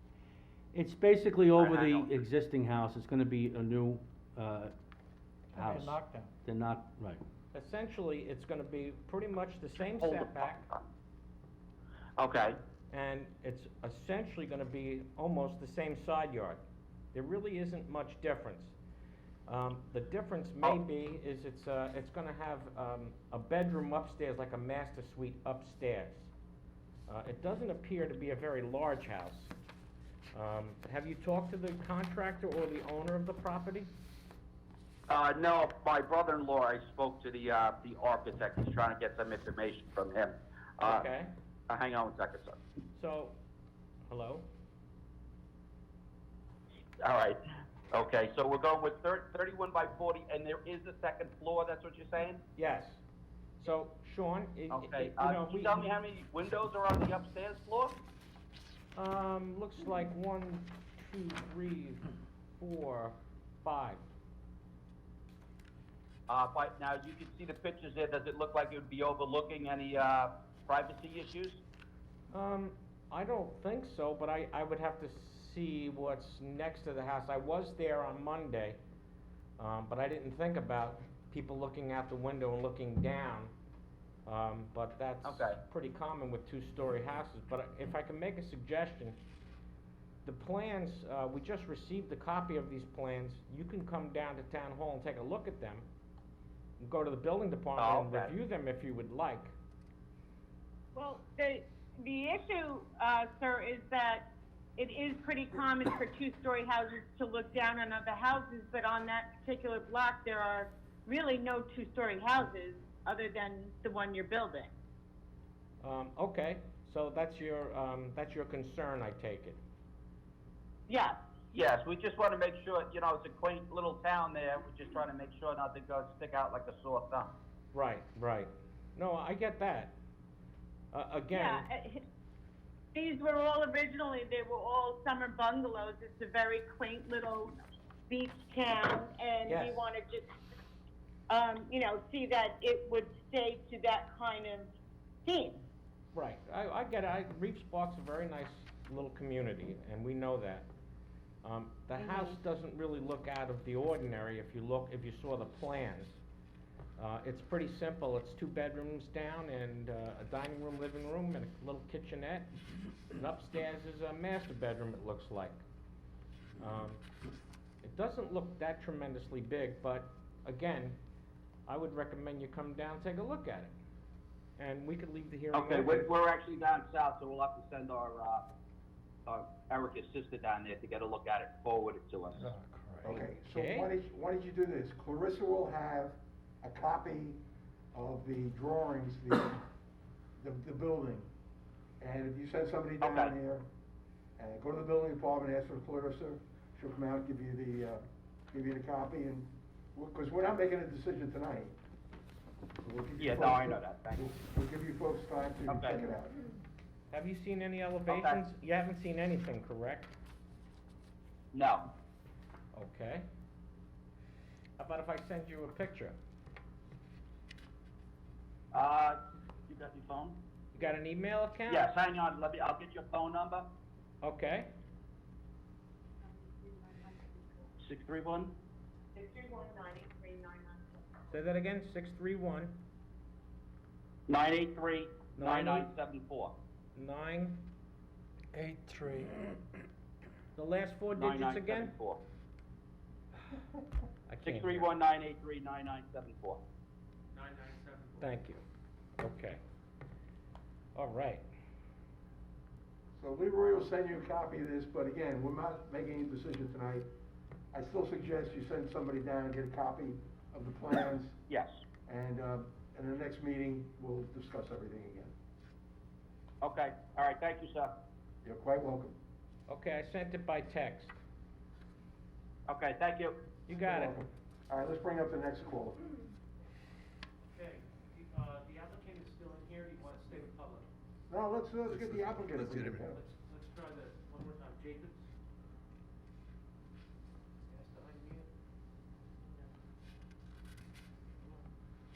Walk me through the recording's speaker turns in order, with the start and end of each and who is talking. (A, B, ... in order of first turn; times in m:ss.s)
0:00.7-0:04.7 A
0:01.6-0:02.1 B
0:05.5-0:07.2 A
0:05.5-0:06.3 C
0:07.5-0:10.6 D
0:10.0-0:10.8 B
0:12.2-0:12.6 B
0:12.9-0:16.6 D
0:17.1-0:18.8 D
0:19.5-0:26.3 D
0:27.1-0:29.5 D
0:30.3-0:33.9 D
0:35.1-0:41.1 B
0:40.8-0:41.3 D
0:41.7-0:42.6 B
0:43.0-0:43.4 D
0:44.1-0:44.5 D
0:47.0-0:47.4 B
0:47.9-0:52.4 B
0:52.6-0:53.0 D
0:53.6-0:55.8 D
0:54.7-0:58.0 B
0:58.9-1:04.0 D
1:06.3-1:11.6 B
1:12.3-1:18.8 D
1:19.6-1:23.5 D
1:24.2-1:29.2 D
1:25.2-1:25.6 B
1:30.2-1:35.9 D
1:36.8-1:39.5 D
1:37.8-1:38.4 B
1:40.9-1:54.7 E
1:55.8-1:59.6 D
2:00.9-2:01.2 E
2:01.5-2:07.3 B
2:07.7-2:10.0 D
2:10.9-2:11.7 D
2:11.3-2:12.0 E
2:12.9-2:17.5 E
2:18.1-2:20.3 E
2:19.4-2:19.8 D
2:21.3-2:24.7 E
2:25.2-2:25.6 E
2:26.1-2:30.7 D
2:31.4-2:36.2 D
2:37.0-2:42.5 D
2:43.1-2:45.6 D
2:46.6-2:47.0 D
2:47.8-2:51.0 D
2:51.7-2:53.7 D
2:54.6-2:56.1 D
2:55.5-2:58.5 B
2:59.2-3:02.5 B
3:02.4-3:03.1 C
3:03.0-3:07.4 F
3:03.4-3:03.9 D
3:07.9-3:09.6 F
3:10.4-3:11.3 F
3:12.0-3:13.7 F
3:13.0-3:13.3 B
3:14.4-3:21.8 F
3:22.8-3:26.4 F
3:23.2-3:24.3 B
3:25.7-3:26.0 B
3:27.1-3:30.1 D
3:28.1-3:28.4 B
3:31.5-3:31.9 B
3:32.7-3:33.2 D
3:34.8-3:36.2 D
3:38.7-3:40.4 B
3:40.7-3:41.9 D
3:41.7-3:43.7 B
3:44.2-3:44.7 D
3:46.2-3:47.7 E
3:47.8-3:48.5 B
3:49.1-3:51.2 E
3:51.3-3:52.8 D
3:54.3-3:56.5 B
3:55.4-3:55.9 D
3:56.9-3:57.7 D
3:58.5-3:59.5 C
4:00.5-4:01.9 D
4:01.2-4:02.2 B
4:04.3-4:04.9 D
4:04.4-4:06.6 B
4:07.3-4:08.3 G
4:08.2-4:08.6 D
4:09.2-4:09.6 D
4:10.9-4:11.4 D
4:13.2-4:17.1 F
4:17.7-4:21.4 F
4:22.0-4:25.3 F
4:26.6-4:28.0 B
4:28.4-4:29.2 F
4:29.7-4:31.2 D
4:32.7-4:33.4 B
4:33.7-4:34.2 D
4:33.7-4:36.0 F
4:37.5-4:40.9 G
4:41.3-4:43.2 F
4:41.9-4:43.0 C
4:43.0-4:45.2 G
4:47.7-4:48.5 G
4:49.4-4:49.7 G